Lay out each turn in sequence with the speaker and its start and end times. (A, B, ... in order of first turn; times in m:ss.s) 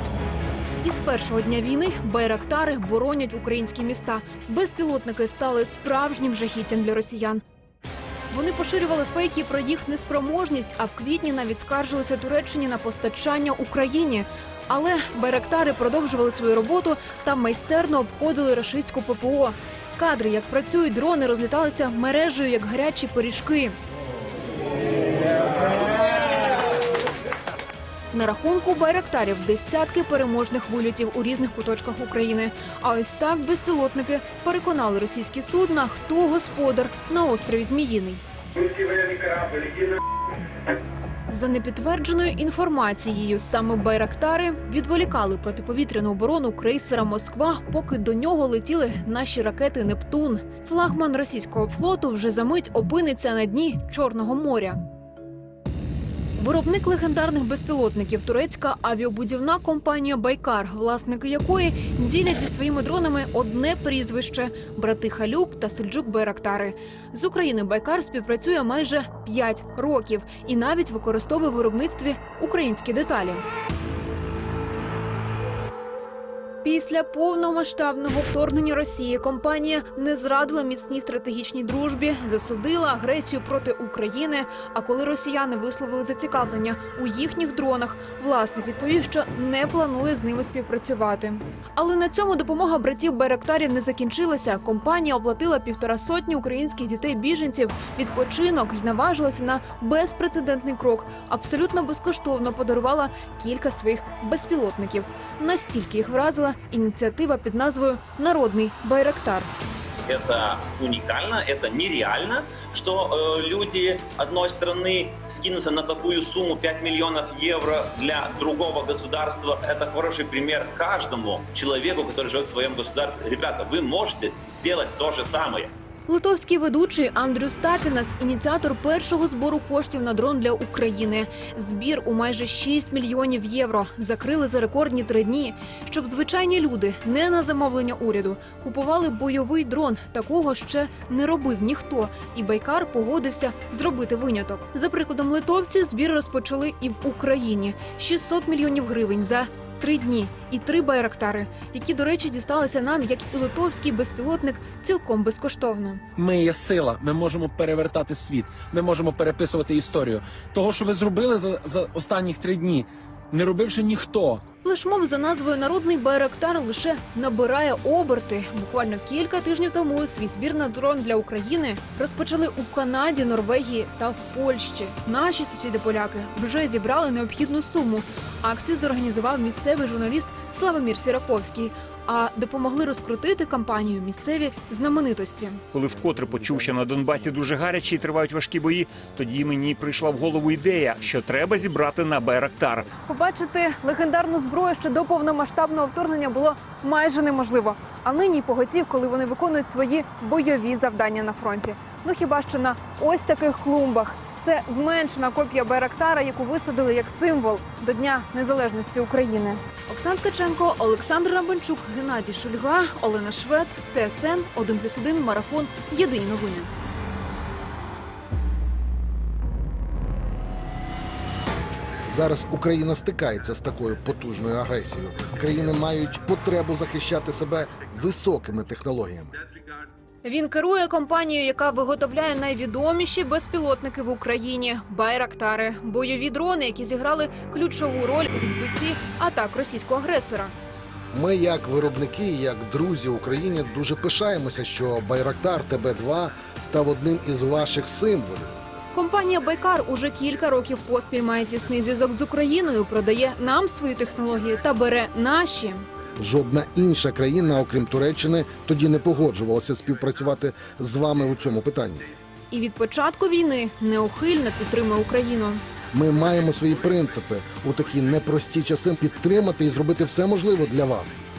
0:00.8-0:07.4 A
0:08.3-0:23.8 A
0:28.1-0:38.2 A
0:41.3-0:54.8 A
0:56.4-1:13.4 A
1:16.6-1:49.5 A
1:50.1-2:05.7 B
2:06.1-2:36.0 A
2:36.2-2:44.4 C
2:44.6-3:05.6 A
3:05.7-3:12.9 D
3:13.0-3:36.7 A
3:42.0-3:49.4 E
3:50.2-4:00.5 A
4:01.1-4:08.5 E
4:08.9-4:15.8 A
4:16.2-4:22.0 E
4:22.5-4:25.6 A
4:25.9-4:31.2 E